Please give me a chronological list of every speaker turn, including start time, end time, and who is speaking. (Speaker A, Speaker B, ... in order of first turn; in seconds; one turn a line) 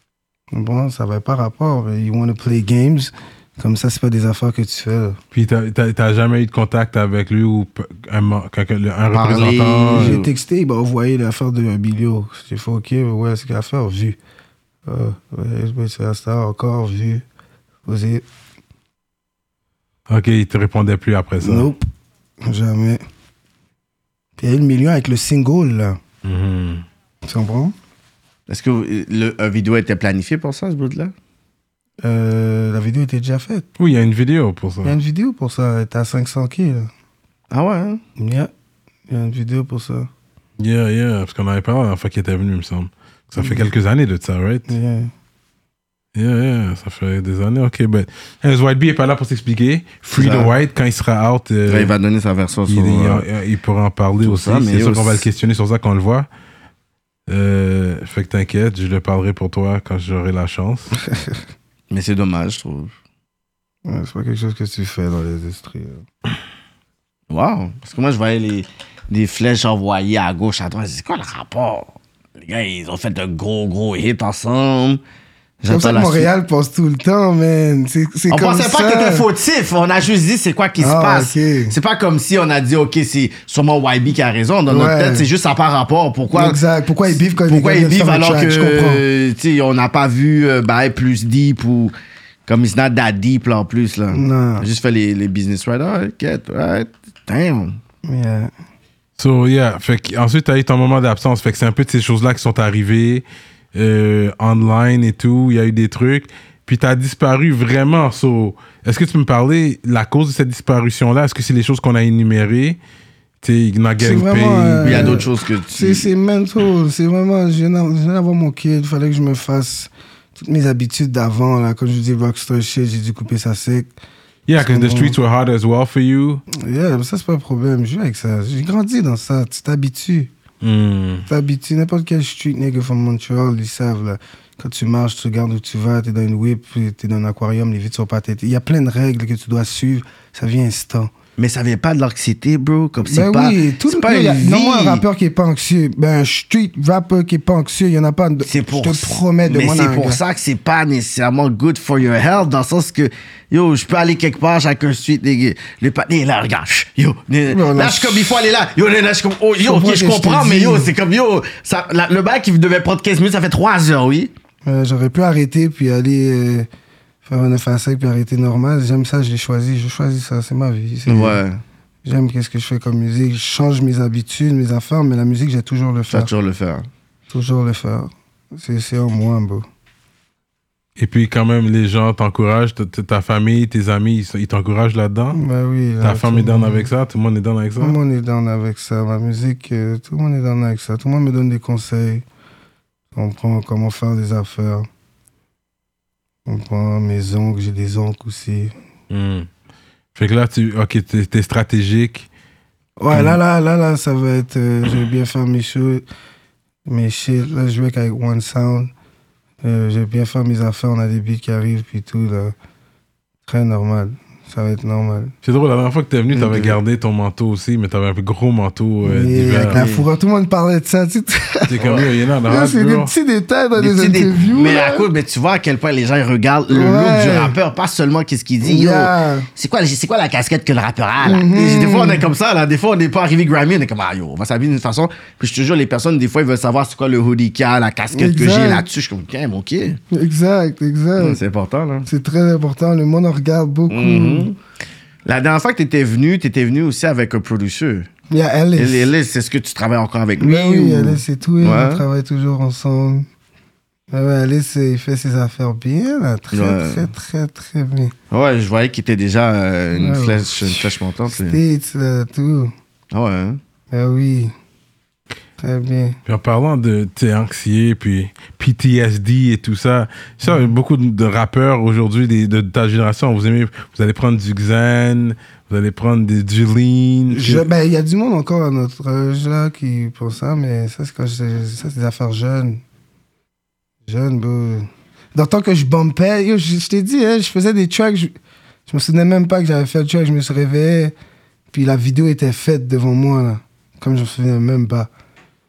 Speaker A: 0.5-5.2
Speaker B: 5.3-10.2
Speaker C: 9.1-10.3
Speaker A: 9.9-14.2
Speaker A: 14.8-17.2
Speaker A: 17.9-18.2
Speaker B: 20.1-21.7
Speaker A: 21.4-21.8
Speaker A: 22.4-23.0
Speaker A: 24.4-26.0
Speaker B: 26.2-26.8
Speaker A: 27.2-27.7
Speaker C: 28.5-31.1
Speaker A: 32.0-33.6
Speaker B: 33.8-35.0
Speaker A: 34.8-36.9
Speaker C: 37.5-38.0
Speaker A: 38.2-38.5
Speaker A: 39.1-40.1
Speaker B: 40.6-44.7
Speaker A: 43.4-43.6
Speaker A: 44.7-45.1
Speaker B: 46.1-51.9
Speaker C: 50.1-50.5
Speaker C: 51.7-53.2
Speaker B: 52.6-56.3
Speaker C: 54.2-55.2
Speaker B: 57.3-60.9
Speaker C: 61.9-62.9
Speaker A: 63.9-66.0
Speaker C: 67.3-75.0
Speaker C: 75.6-76.3
Speaker A: 75.7-79.2
Speaker C: 78.3-91.9
Speaker A: 80.8-81.7
Speaker A: 84.7-85.3
Speaker A: 86.3-89.0
Speaker C: 92.5-97.8
Speaker A: 94.1-94.7
Speaker A: 98.0-98.5
Speaker B: 99.2-112.8
Speaker B: 113.4-115.2
Speaker A: 114.0-123.9
Speaker C: 114.8-116.1
Speaker B: 124.5-126.4
Speaker A: 124.6-125.2
Speaker A: 126.5-130.3
Speaker B: 130.6-131.2
Speaker A: 131.3-141.1
Speaker C: 141.4-145.0
Speaker A: 143.0-150.2
Speaker C: 148.4-164.3
Speaker A: 157.5-158.5
Speaker A: 159.6-160.9
Speaker A: 164.6-166.7
Speaker A: 167.2-171.4
Speaker C: 171.1-171.6
Speaker A: 172.0-176.3
Speaker C: 176.1-176.8
Speaker A: 177.3-179.6
Speaker B: 181.0-185.4
Speaker A: 185.3-186.9
Speaker B: 186.0-188.0
Speaker A: 187.8-192.2
Speaker A: 193.1-194.9
Speaker A: 196.4-198.7
Speaker B: 199.1-199.5
Speaker B: 200.1-202.3
Speaker A: 203.0-206.0
Speaker B: 203.1-203.4
Speaker A: 206.8-208.9
Speaker A: 209.6-212.5
Speaker A: 213.4-215.3
Speaker B: 215.4-219.8
Speaker C: 216.3-216.8
Speaker A: 219.0-221.8
Speaker C: 219.7-220.1
Speaker B: 221.7-223.1
Speaker C: 221.8-222.1
Speaker A: 222.4-225.1
Speaker C: 223.8-240.0
Speaker A: 226.7-227.6
Speaker A: 228.6-229.5
Speaker A: 231.2-232.2
Speaker A: 238.1-238.9
Speaker A: 240.1-241.4
Speaker C: 241.2-242.1
Speaker A: 242.1-244.5
Speaker C: 243.9-244.6
Speaker C: 245.2-248.1
Speaker A: 248.3-249.1
Speaker C: 248.8-252.0
Speaker A: 250.4-253.2
Speaker A: 254.1-258.1
Speaker C: 256.5-257.1
Speaker C: 258.3-261.6
Speaker A: 259.9-262.7
Speaker C: 263.1-263.6
Speaker A: 263.9-264.5
Speaker A: 265.6-266.2
Speaker B: 266.2-277.6
Speaker A: 277.3-282.8
Speaker A: 284.1-288.3
Speaker A: 288.9-291.1
Speaker A: 291.7-295.1